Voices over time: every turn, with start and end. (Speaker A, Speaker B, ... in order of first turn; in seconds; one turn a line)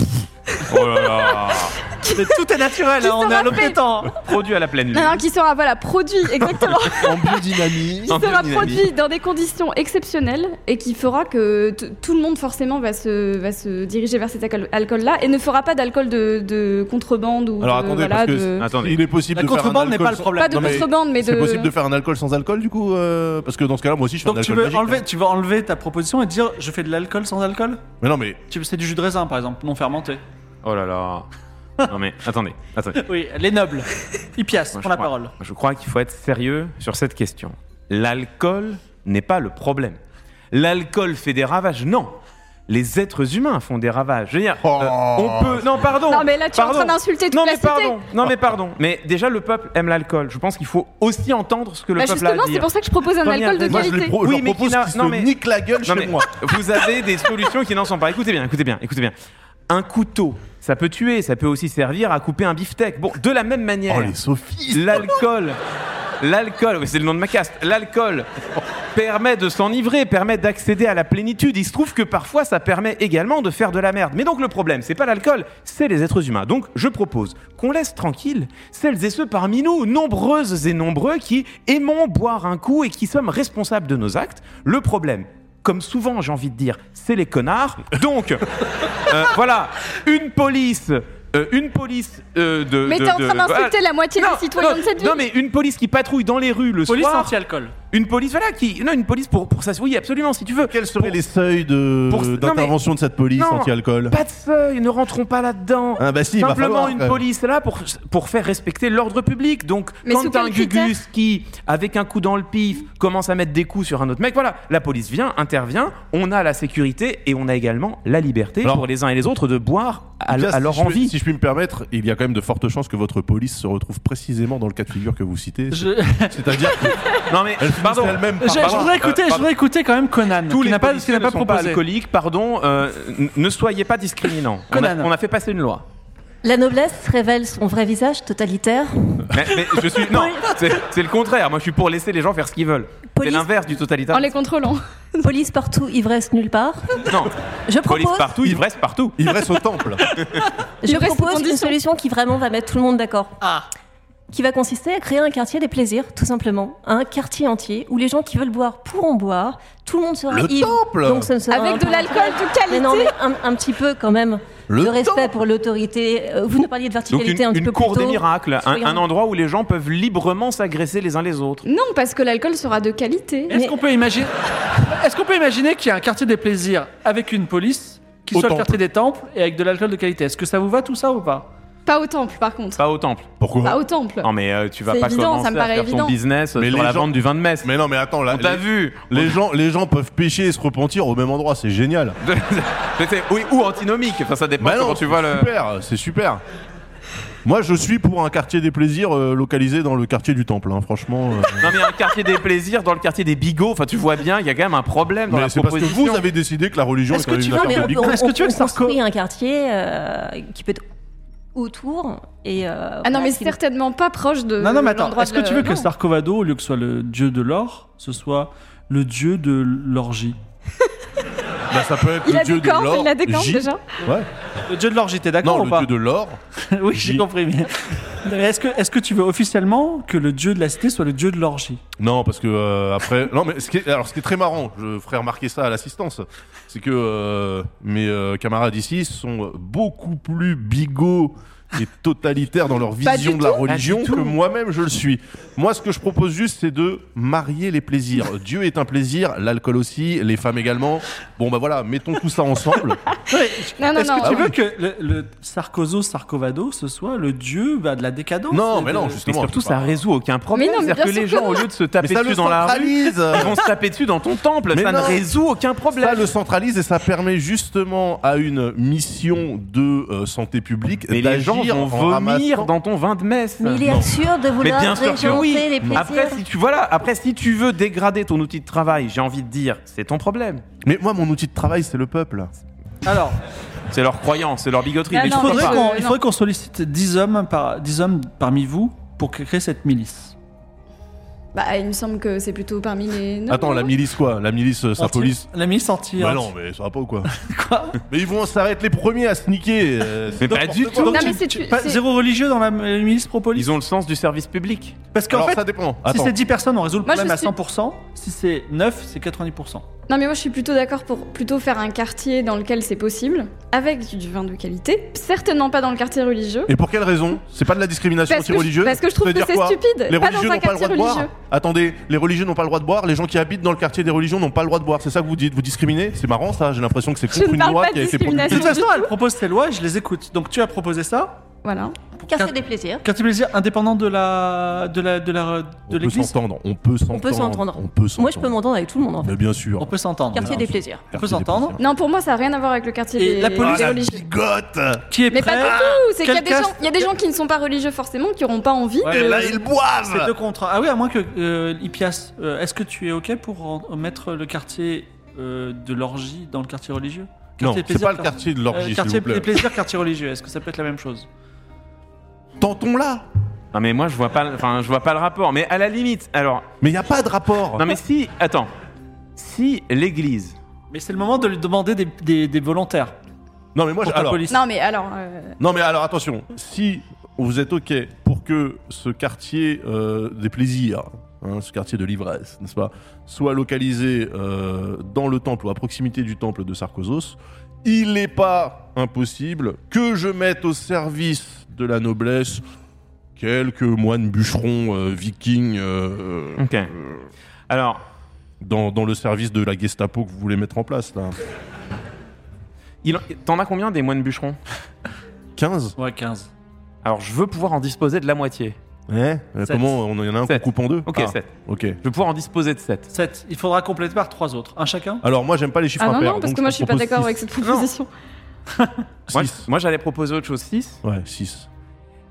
Speaker A: 0.5-1.3
Speaker B: 0.7-1.8
Speaker A: 1.9-2.4
Speaker C: 2.1-4.1
Speaker A: 3.0-3.8
Speaker B: 4.1-5.2
Speaker A: 4.9-18.7
Speaker D: 6.9-8.7
Speaker B: 8.1-8.9
Speaker D: 17.6-25.0
Speaker B: 18.6-19.0
Speaker C: 19.3-20.9
Speaker A: 20.4-21.7
Speaker C: 24.2-27.8
Speaker D: 28.0-28.4
Speaker C: 28.5-30.2
Speaker B: 30.6-31.3
Speaker B: 31.8-33.0
Speaker C: 33.0-35.3
Speaker B: 34.7-40.0
Speaker B: 40.5-42.2
Speaker B: 42.7-52.7
Speaker D: 44.6-45.9
Speaker A: 46.1-48.0
Speaker A: 52.0-54.1
Speaker B: 53.2-55.3
Speaker D: 53.7-56.6
Speaker B: 55.8-59.1
Speaker B: 59.7-64.2
Speaker D: 63.9-65.2
Speaker B: 64.7-65.6
Speaker B: 66.2-68.3
Speaker B: 68.9-97.3
Speaker A: 92.8-95.2
Speaker C: 96.9-97.7
Speaker B: 97.9-101.2
Speaker D: 100.6-104.2
Speaker B: 102.1-102.7
Speaker B: 103.4-121.1
Speaker D: 106.0-107.2
Speaker A: 110.0-110.9
Speaker D: 120.3-129.0
Speaker C: 125.7-127.0
Speaker B: 127.3-129.5
Speaker C: 128.2-131.8
Speaker B: 130.5-135.8
Speaker C: 134.7-135.1
Speaker E: 136.4-140.5
Speaker B: 139.3-144.3
Speaker E: 143.1-143.5
Speaker A: 144.1-145.2
Speaker E: 145.2-147.1
Speaker B: 147.0-149.2
Speaker E: 147.7-148.4
Speaker D: 149.2-150.2
Speaker E: 150.8-153.4
Speaker A: 150.9-151.7
Speaker C: 153.4-153.7
Speaker E: 154.3-169.0
Speaker D: 160.3-161.3
Speaker A: 161.5-163.1
Speaker D: 164.7-165.3
Speaker B: 167.1-171.6
Speaker A: 171.6-173.6
Speaker C: 173.5-181.5
Speaker E: 173.5-173.8
Speaker D: 178.3-178.8
Speaker A: 181.9-182.8
Speaker B: 182.8-183.3
Speaker D: 183.4-183.8
Speaker A: 183.6-184.3
Speaker B: 184.2-187.7
Speaker A: 184.9-186.2
Speaker D: 186.6-192.2
Speaker B: 188.3-189.4
Speaker B: 192.2-195.5
Speaker D: 194.6-196.4
Speaker D: 197.4-201.8
Speaker B: 201.6-206.2
Speaker D: 205.3-208.2
Speaker E: 207.1-210.8
Speaker C: 207.6-209.0
Speaker E: 211.5-213.6
Speaker A: 213.0-215.9
Speaker C: 214.6-220.4
Speaker D: 221.7-224.3
Speaker A: 222.2-223.8
Speaker C: 224.7-225.9
Speaker D: 225.4-226.4
Speaker C: 226.7-231.8
Speaker D: 226.9-227.2
Speaker D: 232.0-253.0
Speaker A: 243.0-243.7
Speaker B: 243.7-244.3
Speaker C: 253.3-259.2
Speaker A: 253.8-254.5
Speaker D: 254.2-254.5
Speaker D: 258.5-260.0
Speaker B: 259.2-266.3
Speaker A: 260.5-261.7
Speaker D: 262.0-263.5
Speaker D: 264.7-265.2
Speaker D: 266.0-272.7
Speaker B: 271.1-274.0
Speaker E: 273.6-276.4
Speaker D: 273.8-274.1
Speaker B: 274.6-280.6
Speaker D: 280.8-282.5
Speaker C: 283.0-283.4
Speaker B: 283.9-285.8
Speaker C: 285.1-290.3
Speaker A: 285.1-286.2
Speaker A: 291.5-293.9
Speaker D: 293.5-295.5
Speaker C: 295.0-296.5
Speaker D: 296.2-297.3
Speaker C: 297.3-298.0
Speaker D: 298.0-301.4
Speaker B: 300.4-301.3
Speaker C: 300.5-303.7
Speaker A: 301.1-302.0
Speaker B: 303.5-304.9
Speaker C: 305.1-309.8
Speaker D: 305.3-306.4
Speaker A: 307.1-307.5
Speaker A: 310.1-316.7
Speaker D: 316.7-328.7
Speaker A: 318.3-321.3
Speaker A: 327.3-329.1
Speaker C: 328.4-331.4
Speaker A: 331.6-332.0
Speaker C: 332.2-336.3
Speaker E: 332.3-333.1
Speaker D: 335.9-338.5
Speaker E: 337.1-339.4
Speaker D: 339.2-341.8
Speaker C: 339.8-340.6
Speaker E: 340.3-341.1
Speaker C: 341.1-341.8
Speaker A: 341.8-344.2
Speaker C: 343.2-344.1
Speaker D: 343.6-346.0
Speaker C: 345.1-347.1
Speaker A: 345.3-349.6
Speaker D: 349.0-350.3
Speaker C: 349.0-349.5
Speaker C: 350.1-361.3
Speaker D: 357.6-359.7
Speaker D: 362.6-363.2
Speaker B: 363.7-366.6
Speaker D: 366.8-368.0
Speaker B: 367.8-368.7
Speaker B: 369.4-370.6
Speaker C: 370.9-373.1
Speaker D: 373.7-374.4
Speaker C: 374.0-374.6
Speaker A: 374.5-375.6
Speaker D: 375.6-392.6
Speaker D: 393.4-397.1
Speaker B: 396.6-396.9
Speaker B: 397.7-398.0
Speaker D: 398.6-401.4
Speaker B: 403.0-404.6
Speaker D: 405.6-405.9
Speaker C: 406.0-406.5
Speaker B: 407.0-408.8
Speaker D: 409.1-412.0
Speaker C: 409.6-409.9
Speaker B: 410.5-411.5
Speaker B: 412.0-413.1
Speaker C: 413.1-415.2
Speaker D: 415.2-417.4
Speaker A: 416.0-418.1
Speaker B: 417.6-417.9
Speaker B: 419.3-421.0
Speaker D: 419.3-419.7
Speaker D: 421.0-421.7